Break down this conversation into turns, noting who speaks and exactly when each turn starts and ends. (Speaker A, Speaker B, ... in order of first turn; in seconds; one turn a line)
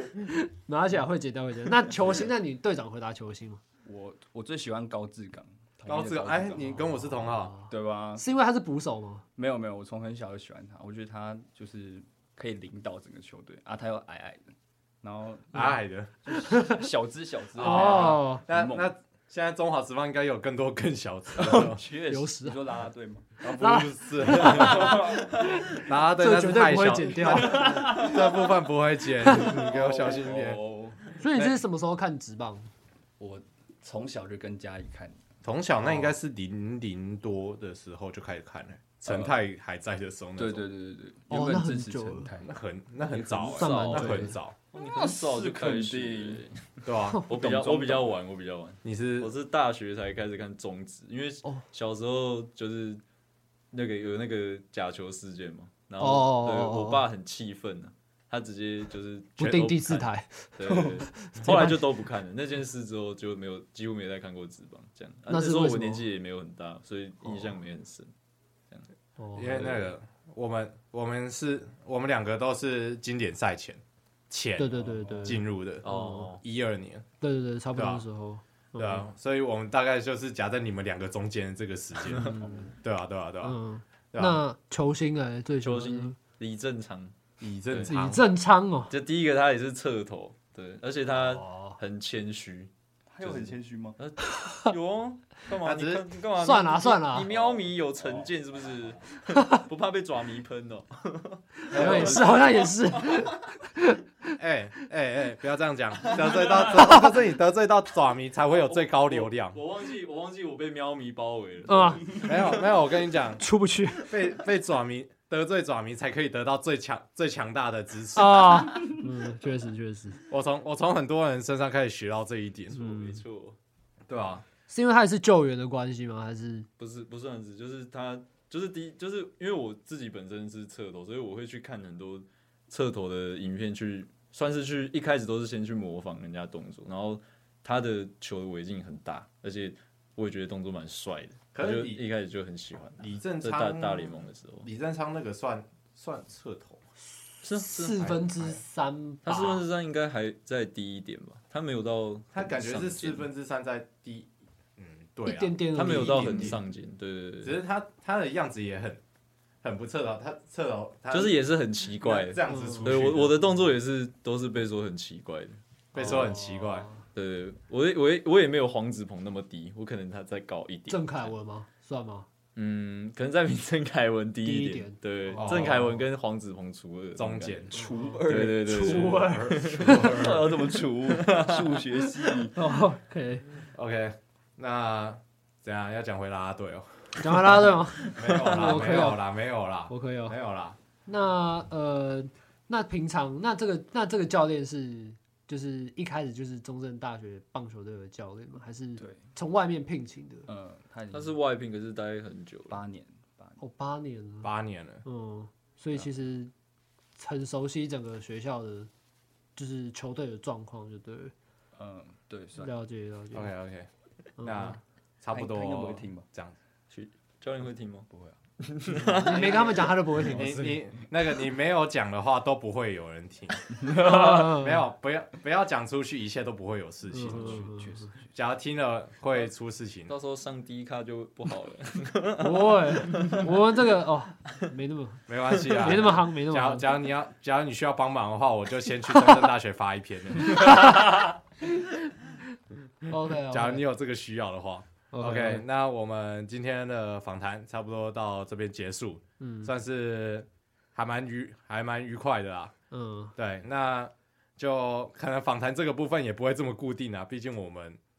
Speaker A: 0.2-3.6
Speaker B: 3.8-7.0
Speaker C: 5.9-7.5
Speaker A: 7.0-9.2
Speaker B: 7.7-8.2
Speaker B: 9.3-18.9
Speaker C: 15.5-16.1
Speaker A: 16.4-16.8
Speaker C: 17.6-21.8
Speaker A: 17.6-18.4
Speaker B: 21.4-23.4
Speaker A: 21.4-22.6
Speaker C: 23.4-25.1
Speaker A: 23.4-28.2
Speaker B: 24.5-25.3
Speaker C: 25.8-30.6
Speaker B: 27.4-28.4
Speaker A: 29.2-29.5
Speaker B: 29.3-31.6
Speaker A: 31.2-32.6
Speaker B: 33.2-35.2
Speaker C: 35.4-40.6
Speaker A: 35.8-36.1
Speaker B: 39.0-39.4
Speaker B: 40.4-43.9
Speaker A: 41.3-42.3
Speaker C: 42.4-44.5
Speaker A: 43.6-44.4
Speaker D: 43.6-46.5
Speaker B: 44.9-46.4
Speaker C: 46.9-47.2
Speaker D: 47.3-53.0
Speaker B: 47.3-48.1
Speaker C: 48.8-49.3
Speaker D: 53.7-68.1
Speaker A: 56.0-57.0
Speaker A: 59.4-61.8
Speaker A: 65.3-66.0
Speaker A: 69.2-69.7
Speaker C: 69.3-75.9
Speaker D: 69.4-69.9
Speaker A: 74.6-76.3
Speaker B: 74.7-75.4
Speaker D: 75.8-76.4
Speaker C: 76.4-77.0
Speaker A: 77.2-79.1
Speaker C: 77.7-78.0
Speaker C: 78.8-83.5
Speaker A: 82.1-82.7
Speaker B: 82.2-82.7
Speaker A: 83.4-86.2
Speaker C: 84.1-84.4
Speaker D: 85.6-87.1
Speaker C: 87.4-88.2
Speaker D: 87.7-88.0
Speaker A: 87.8-88.9
Speaker D: 88.9-92.7
Speaker A: 91.1-91.8
Speaker B: 93.1-94.0
Speaker D: 93.2-103.3
Speaker A: 94.3-94.7
Speaker C: 95.6-96.0
Speaker A: 96.4-97.3
Speaker B: 97.2-98.9
Speaker A: 99.3-99.6
Speaker A: 101.6-104.3
Speaker C: 101.7-102.4
Speaker C: 104.4-109.6
Speaker D: 106.2-106.8
Speaker A: 106.6-107.1
Speaker D: 108.5-112.7
Speaker A: 111.7-112.3
Speaker C: 112.2-113.4
Speaker A: 113.4-114.1
Speaker C: 114.0-119.0
Speaker A: 118.1-120.2
Speaker C: 120.3-122.8
Speaker D: 122.7-123.6
Speaker A: 122.7-123.2
Speaker C: 124.1-124.4
Speaker A: 124.7-126.7
Speaker D: 126.8-144.7
Speaker C: 141.5-142.0
Speaker C: 143.0-146.8
Speaker D: 147.4-148.0
Speaker A: 147.5-149.6
Speaker C: 148.0-148.6
Speaker D: 149.2-153.3
Speaker C: 152.3-156.6
Speaker A: 155.2-156.6
Speaker D: 155.7-157.6
Speaker C: 157.4-159.0
Speaker C: 159.6-161.4
Speaker D: 161.1-165.6
Speaker C: 162.0-163.5
Speaker A: 162.5-162.9
Speaker C: 165.9-166.9
Speaker A: 165.9-167.0
Speaker D: 167.1-171.3
Speaker A: 170.9-172.3
Speaker D: 172.6-182.4
Speaker A: 174.4-175.8
Speaker C: 175.4-176.0
Speaker C: 177.2-177.8
Speaker B: 177.7-179.0
Speaker A: 177.7-179.7
Speaker C: 178.8-180.5
Speaker B: 179.8-182.6
Speaker A: 182.5-183.5
Speaker C: 183.7-187.0
Speaker A: 187.2-189.2
Speaker C: 188.1-190.8
Speaker D: 188.2-189.0
Speaker A: 189.9-190.3
Speaker A: 191.1-200.5
Speaker B: 199.0-199.2
Speaker B: 200.5-201.3
Speaker D: 201.1-202.8
Speaker B: 202.7-203.6
Speaker A: 203.6-204.5
Speaker C: 204.4-205.0
Speaker A: 205.0-206.5
Speaker A: 207.2-208.9
Speaker A: 209.6-211.3
Speaker B: 211.8-212.7
Speaker A: 212.6-213.5
Speaker C: 213.3-213.9
Speaker A: 214.4-214.8
Speaker C: 214.4-216.6
Speaker B: 215.3-216.2
Speaker D: 216.9-218.1
Speaker B: 218.1-218.4
Speaker D: 218.6-219.6
Speaker B: 218.9-221.0
Speaker A: 219.0-220.8
Speaker C: 219.4-227.6
Speaker B: 223.8-224.3
Speaker A: 223.9-224.8
Speaker A: 227.1-227.9
Speaker B: 227.2-228.3
Speaker C: 228.3-230.1
Speaker D: 230.1-233.4
Speaker A: 232.4-236.9
Speaker C: 235.3-240.9
Speaker A: 240.4-241.9
Speaker A: 243.1-243.8
Speaker C: 243.5-252.7
Speaker A: 245.1-245.6
Speaker A: 249.4-249.7
Speaker A: 252.9-253.3
Speaker C: 253.3-258.0